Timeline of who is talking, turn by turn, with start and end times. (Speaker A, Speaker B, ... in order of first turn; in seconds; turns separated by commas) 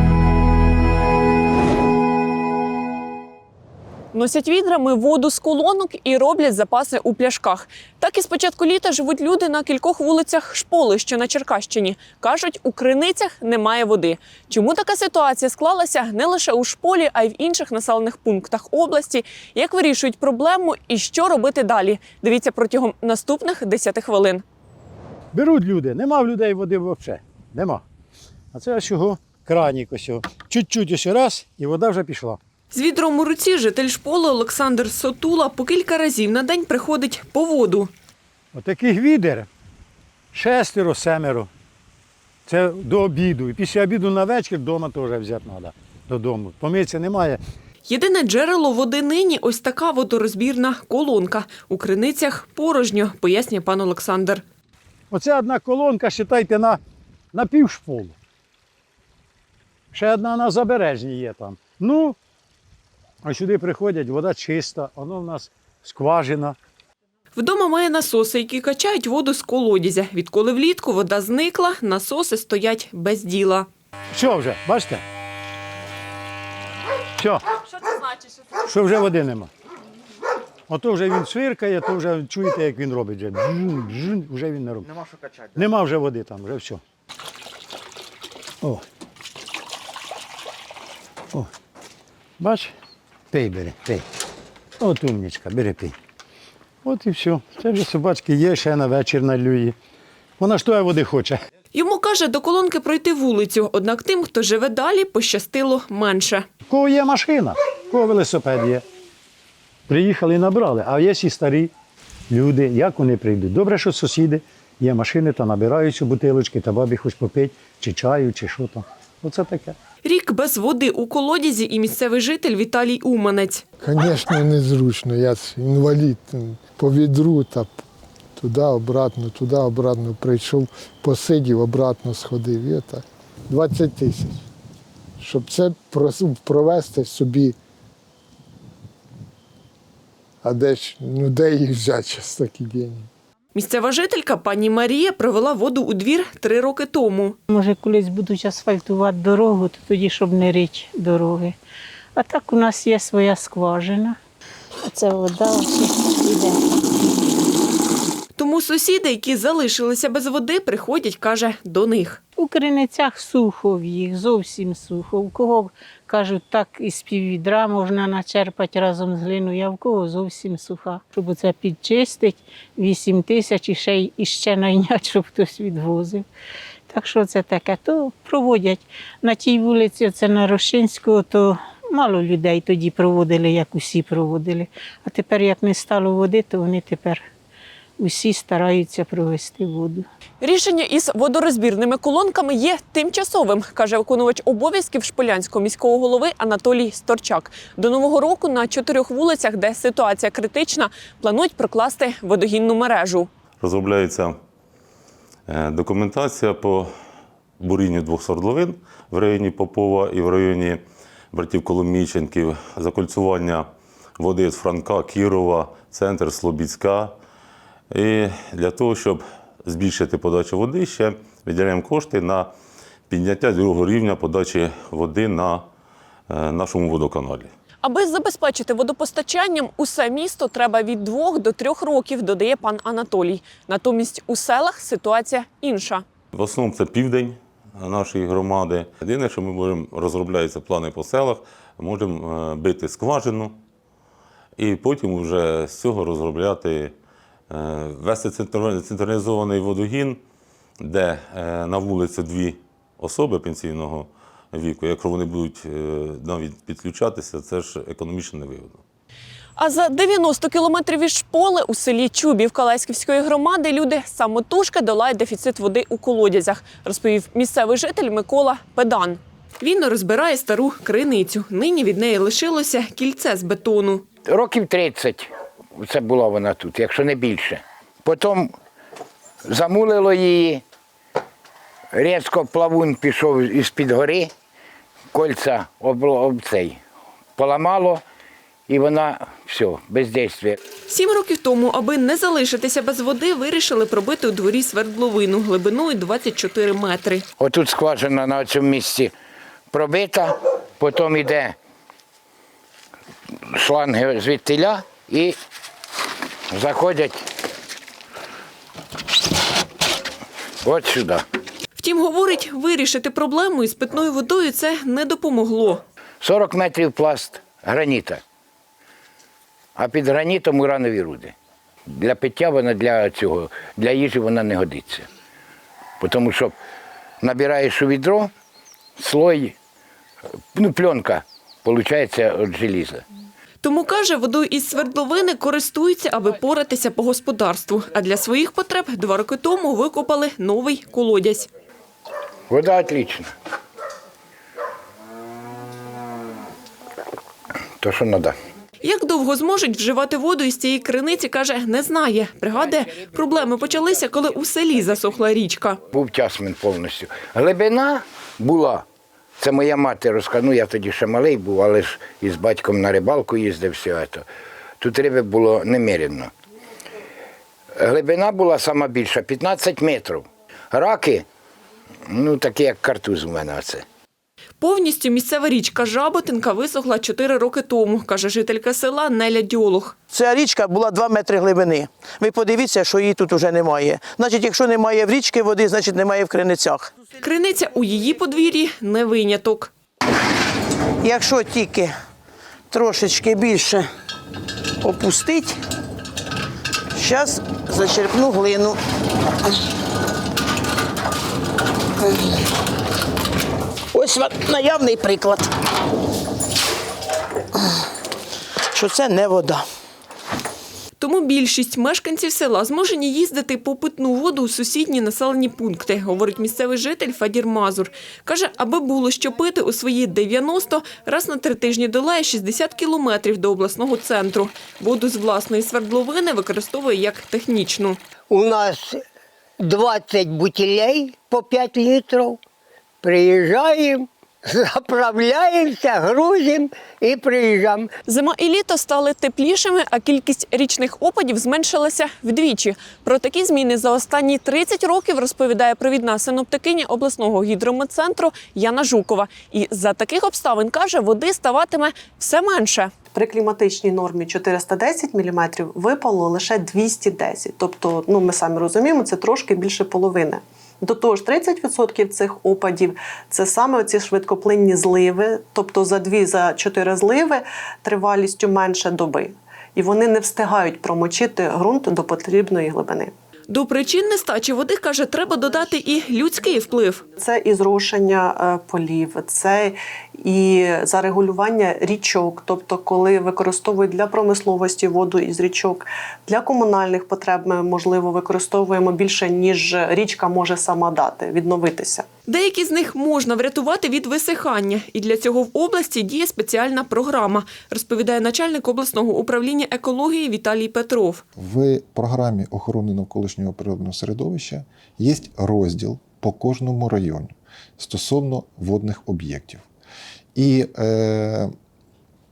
Speaker A: 4.1-24.4, Speaker B: 25.3-27.8, Speaker B: 28.5-32.4, Speaker A: 32.7-37.9, Speaker B: 38.5-39.5, Speaker B: 40.3-41.5, Speaker B: 42.5-47.4, Speaker A: 47.9-54.4, Speaker B: 55.1-56.8, Speaker B: 57.3-58.1, Speaker B: 59.9-62.2, Speaker B: 63.2-66.6, Speaker A: 67.3-73.7, Speaker B: 74.1-75.0, Speaker B: 78.7-79.5, Speaker B: 80.7-84.9, Speaker B: 85.5-86.8, Speaker B: 92.4-92.7, Speaker B: 93.3-94.0, Speaker B: 94.8-96.0, Speaker B: 96.8-99.8, Speaker B: 100.4-101.4, Speaker A: 101.7-106.5, Speaker B: 106.7-108.8, Speaker B: 109.9-111.7, Speaker B: 112.3-119.8, Speaker A: 120.0-123.6, Speaker C: 123.8-127.8, Speaker C: 128.4-134.4, Speaker C: 135.2-137.6, Speaker C: 140.4-143.1, Speaker A: 143.6-147.4, Speaker D: 147.5-151.6, Speaker D: 152.2-154.2, Speaker D: 154.9-156.6, Speaker A: 158.4-162.2, Speaker D: 162.4-176.3, Speaker D: 176.9-187.2, Speaker D: 188.0-190.1, Speaker A: 190.4-203.3, Speaker E: 203.6-204.4, Speaker E: 205.5-206.9, Speaker E: 207.6-217.2, Speaker E: 217.9-222.5, Speaker E: 223.1-225.7, Speaker E: 226.3-227.5, Speaker A: 227.8-236.1, Speaker E: 236.3-243.6, Speaker E: 244.6-246.9, Speaker E: 247.5-250.2, Speaker E: 250.8-258.8, Speaker A: 259.6-274.1, Speaker F: 274.2-278.5, Speaker F: 279.5-280.6, Speaker F: 281.9-284.3, Speaker F: 285.1-286.8, Speaker F: 287.4-288.0, Speaker F: 288.7-290.6, Speaker A: 290.9-297.2, Speaker F: 297.4-299.1, Speaker F: 299.7-301.6, Speaker F: 303.6-305.4, Speaker F: 306.5-307.2, Speaker F: 310.6-311.2, Speaker A: 311.8-315.8, Speaker F: 316.2-318.2, Speaker F: 319.8-321.3, Speaker F: 321.9-325.1, Speaker F: 326.0-326.5, Speaker F: 327.2-328.3, Speaker F: 329.0-329.6, Speaker F: 330.5-333.0, Speaker A: 333.6-341.5, Speaker F: 342.5-343.3, Speaker F: 347.8-348.4, Speaker A: 348.8-355.8, Speaker F: 355.9-358.9, Speaker F: 359.4-364.3, Speaker F: 364.8-366.3, Speaker F: 367.8-371.2, Speaker F: 372.1-373.8, Speaker A: 374.6-379.9, Speaker G: 380.2-386.9, Speaker A: 387.2-389.7, Speaker G: 391.1-391.9, Speaker G: 392.7-393.8, Speaker G: 394.9-395.5, Speaker G: 397.0-398.7, Speaker G: 404.1-405.4, Speaker G: 408.8-409.6, Speaker A: 411.0-428.0, Speaker H: 428.3-429.0, Speaker H: 429.6-432.4, Speaker H: 433.0-437.9, Speaker A: 438.1-452.9, Speaker I: 453.1-473.1, Speaker A: 473.5-477.0, Speaker I: 477.2-492.1, Speaker A: 492.3-501.2, Speaker J: 501.4-509.6, Speaker J: 510.4-511.5